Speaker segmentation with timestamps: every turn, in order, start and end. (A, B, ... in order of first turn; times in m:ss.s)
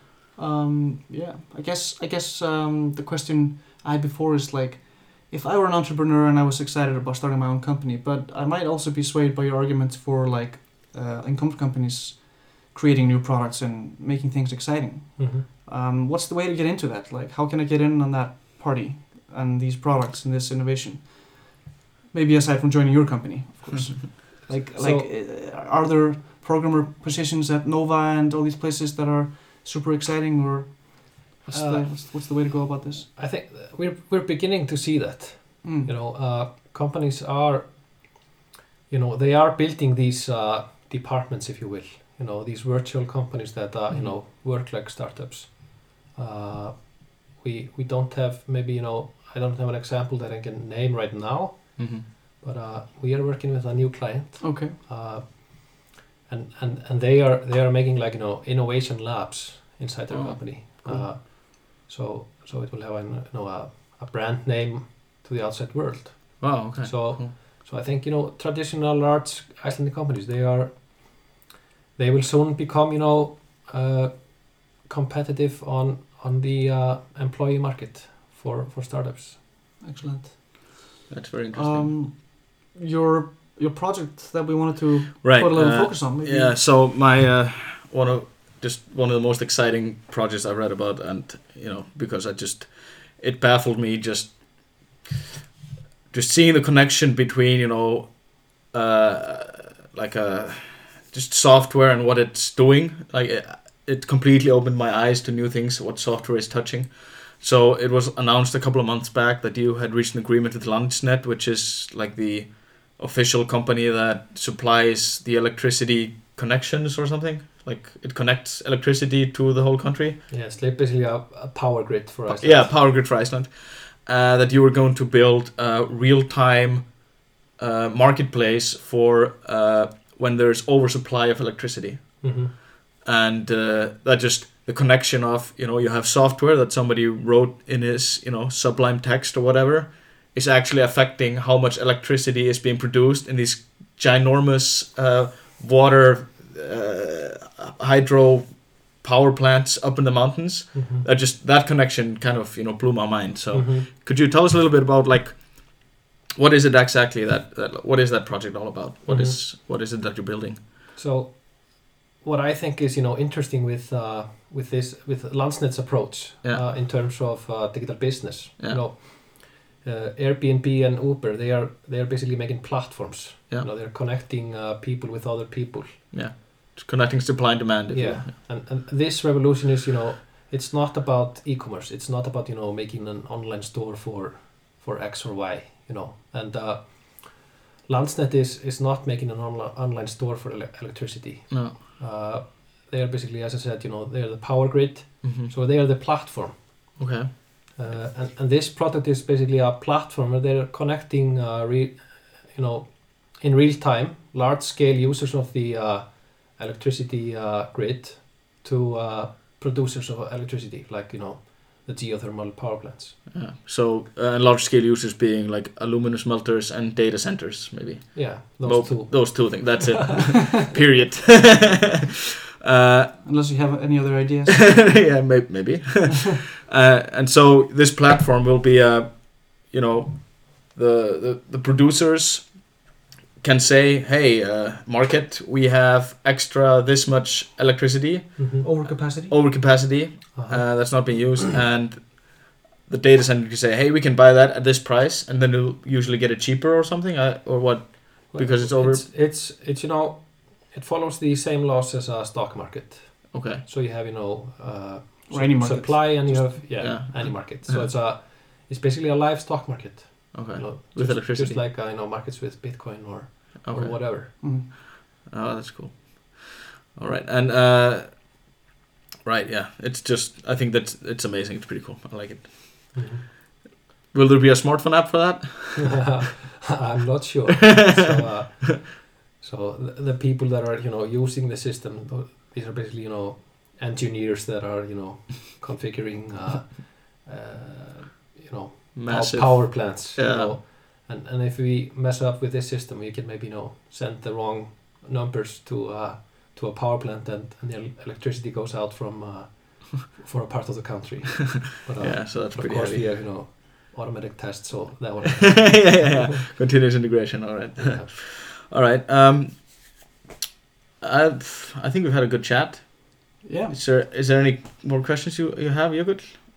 0:00.4-0:33.1 A
0:15.2-0:15.5 B
0:24.3-0:25.1 B
0:31.5-0:38.3 B
0:35.6-0:35.9 A
0:38.9-1:11.4 B
0:43.9-0:44.2 C
0:51.8-0:52.1 C
0:54.4-0:54.8 A
1:00.1-1:01.1 C
1:06.4-1:07.4 C
1:12.0-1:19.5 B
1:19.8-1:20.9 A
1:21.1-1:22.0 C
1:21.5-1:26.6 A
1:25.2-1:35.0 C
1:36.1-2:00.2 C
2:00.3-2:02.8 B
2:02.3-2:40.6 C
2:12.2-2:12.5 B
2:30.7-2:31.1 B
2:33.5-2:33.9 B
2:39.1-2:39.4 B
2:41.0-2:56.1 B
2:56.1-2:58.3 C
2:57.9-3:33.2 B
3:11.5-3:11.8 C
3:15.2-3:15.5 C
3:17.0-3:18.0 C
3:33.3-3:41.9 C
3:38.1-3:39.9 B
3:42.6-3:43.2 C
3:43.2-3:44.8 A
3:44.6-3:52.9 C
3:53.4-4:09.0 C
3:58.4-3:58.7 B
3:58.6-3:59.3 A
4:00.3-4:01.4 B
4:08.3-4:24.3 B
4:13.3-4:13.6 C
4:15.3-4:16.6 A
4:16.8-4:17.9 C
4:20.3-4:21.6 C
4:23.6-4:28.5 C
4:24.4-4:24.7 A
4:29.2-4:33.0 C
4:32.9-4:33.2 B
4:34.1-4:36.2 C
4:35.8-5:06.3 B
4:49.0-4:50.6 C
5:02.0-5:03.0 C
5:05.5-5:10.1 C
5:07.8-5:08.1 B
5:11.0-5:16.4 C
5:13.4-5:13.8 A